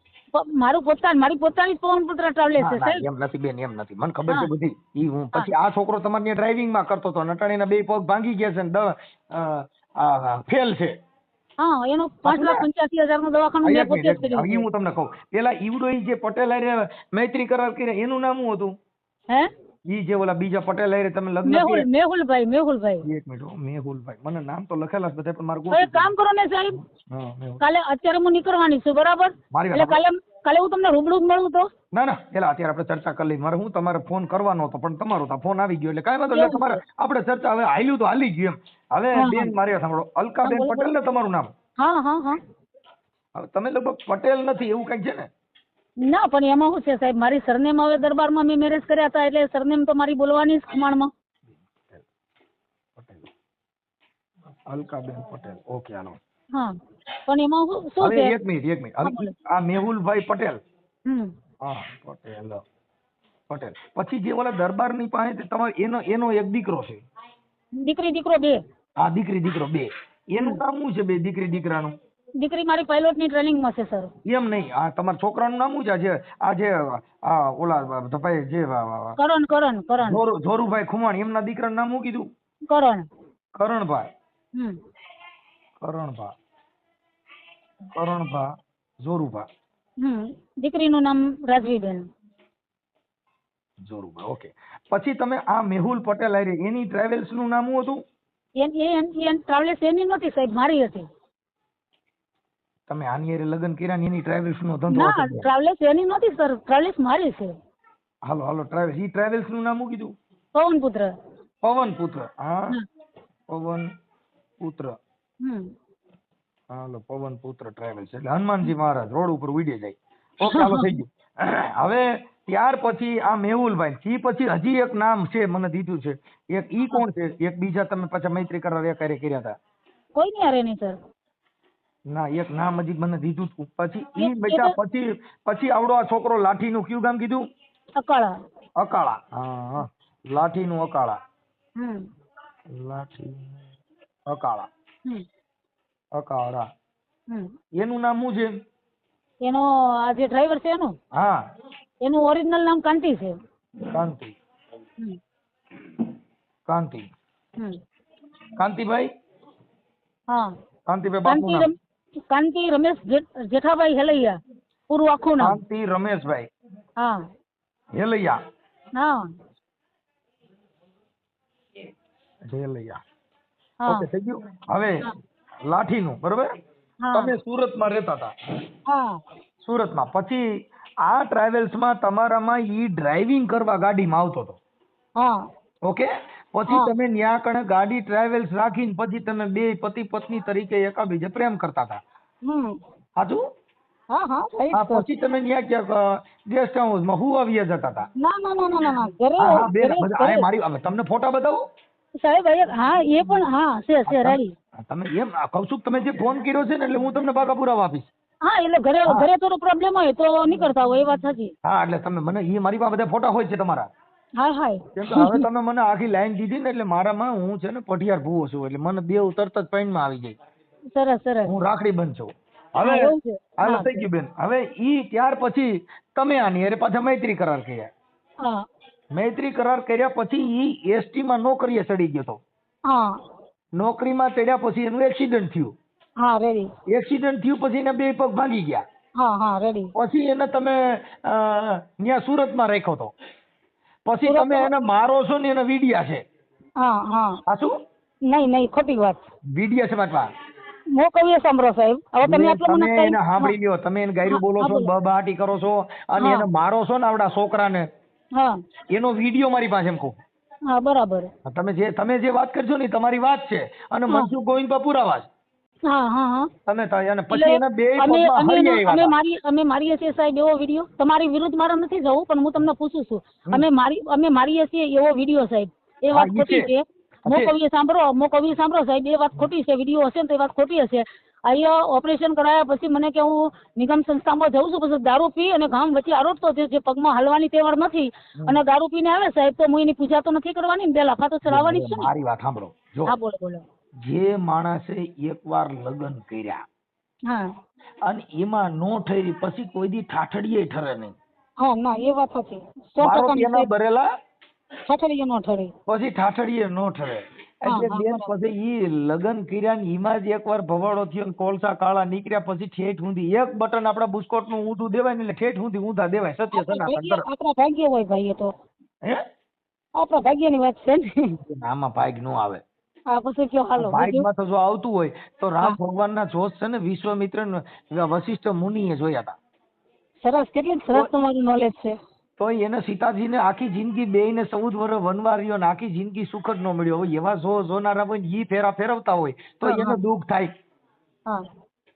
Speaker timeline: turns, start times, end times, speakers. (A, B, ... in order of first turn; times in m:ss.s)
0:00.3-0:03.0 A
0:02.6-0:10.9 B
0:11.6-0:14.7 A
0:12.2-0:12.7 B
0:13.6-0:18.7 B
0:19.9-0:21.9 B
0:21.4-0:23.1 A
0:23.0-0:26.1 B
0:25.7-0:26.8 A
0:26.9-0:27.6 B
0:27.6-0:31.7 A
0:29.5-0:30.0 B
0:31.9-0:41.5 B
0:36.3-0:36.8 A
0:39.2-0:39.5 A
0:40.4-0:40.9 A
0:41.8-0:42.4 A
0:43.4-0:45.2 B
0:46.0-0:51.1 A
0:53.0-0:53.3 B
0:54.7-0:56.2 B
0:57.3-0:58.4 A
0:58.0-1:00.6 B
0:59.0-0:59.3 A
1:01.1-1:01.3 A
1:01.6-1:02.6 B
1:03.5-1:07.0 B
1:07.8-1:08.6 A
1:09.0-1:11.9 B
1:12.4-1:14.1 A
1:14.3-1:19.2 B
1:19.2-1:20.2 A
1:20.0-1:22.2 B
1:22.7-1:23.1 A
1:23.6-1:24.1 B
1:25.8-1:26.3 B
1:27.9-1:28.4 B
1:29.0-1:29.4 B
1:30.0-1:32.1 A
1:33.9-1:38.0 B
1:38.6-1:41.1 A
1:42.9-1:45.5 B
1:44.9-1:47.5 A
1:48.3-1:50.1 B
1:50.5-1:51.1 A
1:51.6-1:52.8 B
1:53.5-1:53.9 B
1:54.6-1:54.9 B
1:55.4-1:55.7 A
1:56.7-2:09.5 B
2:00.5-2:00.9 A
2:10.1-2:11.0 A
2:12.1-2:17.4 B
2:14.2-2:14.8 A
2:18.0-2:18.3 A
2:18.8-2:21.2 B
2:21.8-2:22.1 A
2:22.7-2:23.6 B
2:24.3-2:24.7 B
2:26.2-2:26.6 B
2:27.8-2:28.5 B
2:29.4-2:31.0 A
2:32.0-2:33.3 A
2:33.9-2:34.3 B
2:36.7-2:37.1 B
2:38.6-2:39.1 B
2:40.9-2:41.7 B
2:41.2-2:41.8 A
2:42.3-2:45.6 A
2:45.4-2:46.5 B
2:48.0-2:48.4 B
2:48.9-2:49.3 A
2:52.5-2:53.0 B
2:53.8-2:54.1 A
2:53.9-2:55.1 B
2:55.6-2:56.5 B
2:57.0-2:57.4 A
2:57.1-2:58.3 B
2:58.9-2:59.2 A
2:59.6-3:00.4 B
3:01.1-3:04.6 B
3:05.2-3:05.4 A
3:05.9-3:12.0 B
3:12.4-3:12.8 A
3:14.1-3:15.1 A
3:14.7-3:18.1 B
3:18.2-3:20.5 A
3:19.4-3:21.6 B
3:22.2-3:24.5 A
3:24.1-3:28.1 B
3:28.4-3:31.5 A
3:31.6-3:33.9 B
3:34.4-3:35.4 A
3:35.0-3:40.3 B
3:40.9-3:41.6 A
3:41.4-3:47.9 B
3:42.8-3:44.0 A
3:49.1-3:52.4 B
3:52.9-3:53.2 A
3:53.8-3:55.8 B
3:56.2-3:56.7 A
3:56.9-3:58.8 B
3:59.2-3:59.9 A
4:00.0-4:03.1 B
4:04.1-4:06.2 B
4:04.2-4:04.7 A
4:06.8-4:07.4 A
4:07.5-4:07.7 B
4:08.2-4:09.2 A
4:09.5-4:10.3 B
4:10.9-4:13.6 A
4:12.2-4:17.8 B
4:14.3-4:14.9 A
4:16.2-4:16.4 A
4:18.9-4:20.2 B
4:20.7-4:21.3 A
4:21.4-4:25.2 B
4:25.9-4:26.5 A
4:26.7-4:29.1 B
4:27.3-4:52.1 A
4:36.1-4:36.7 B
4:37.3-4:37.5 B
4:48.4-4:48.6 B
4:51.4-4:53.1 B
4:53.1-4:53.6 A
4:54.0-4:56.6 B
4:57.3-4:57.5 A
4:58.1-5:01.1 B
5:01.6-5:03.7 A
5:03.0-5:04.1 B
5:04.9-5:05.7 A
5:05.9-5:17.2 B
5:07.7-5:08.3 A
5:16.5-5:18.5 A
5:20.0-5:21.4 A
5:21.5-5:22.6 B
5:23.1-5:24.3 A
5:23.8-5:29.4 B
5:30.2-5:32.0 A
5:32.4-5:40.5 B
5:39.6-5:40.0 A